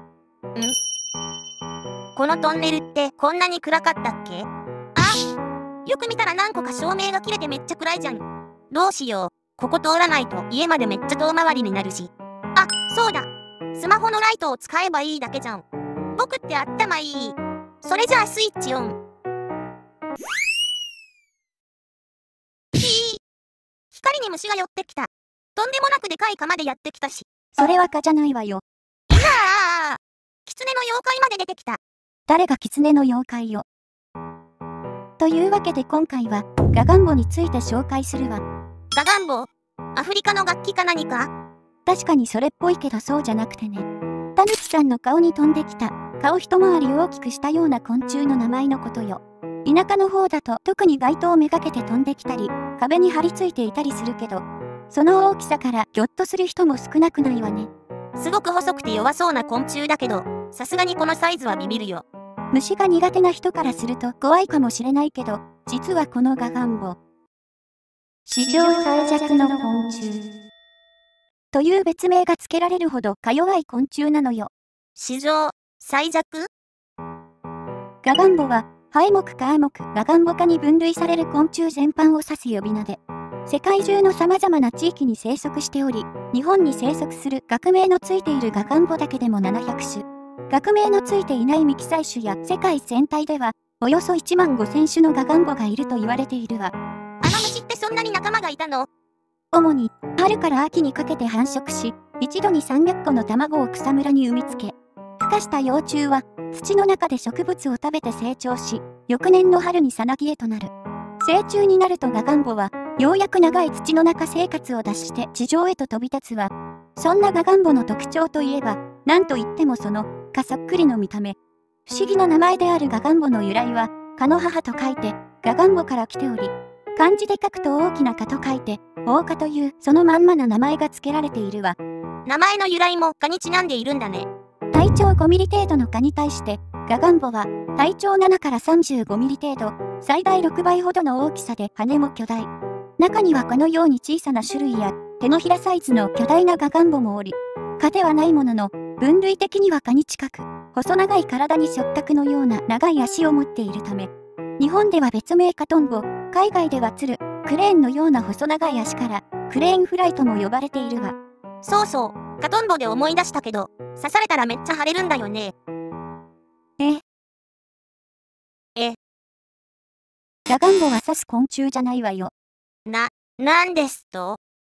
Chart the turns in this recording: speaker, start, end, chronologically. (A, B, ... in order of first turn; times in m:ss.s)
0:02.2-0:05.3 A
0:05.8-0:19.0 A
0:22.8-0:23.2 A
0:23.9-0:27.2 A
0:27.6-0:28.6 B
0:29.1-0:31.8 A
0:32.3-0:33.6 B
0:35.2-0:38.4 B
0:38.9-0:41.3 A
0:41.9-0:57.7 B
0:58.2-1:02.0 A
1:02.5-1:07.0 B
1:08.3-1:10.3 B
1:11.5-1:14.5 B
1:15.0-1:16.5 A
1:18.0-1:36.7 B
1:37.2-1:38.9 A
1:39.5-2:01.4 B
2:01.9-2:11.8 B
2:12.3-2:14.3 A
2:14.7-2:41.2 B
2:41.6-2:45.5 A
2:50.5-2:52.3 B
2:52.9-2:54.4 A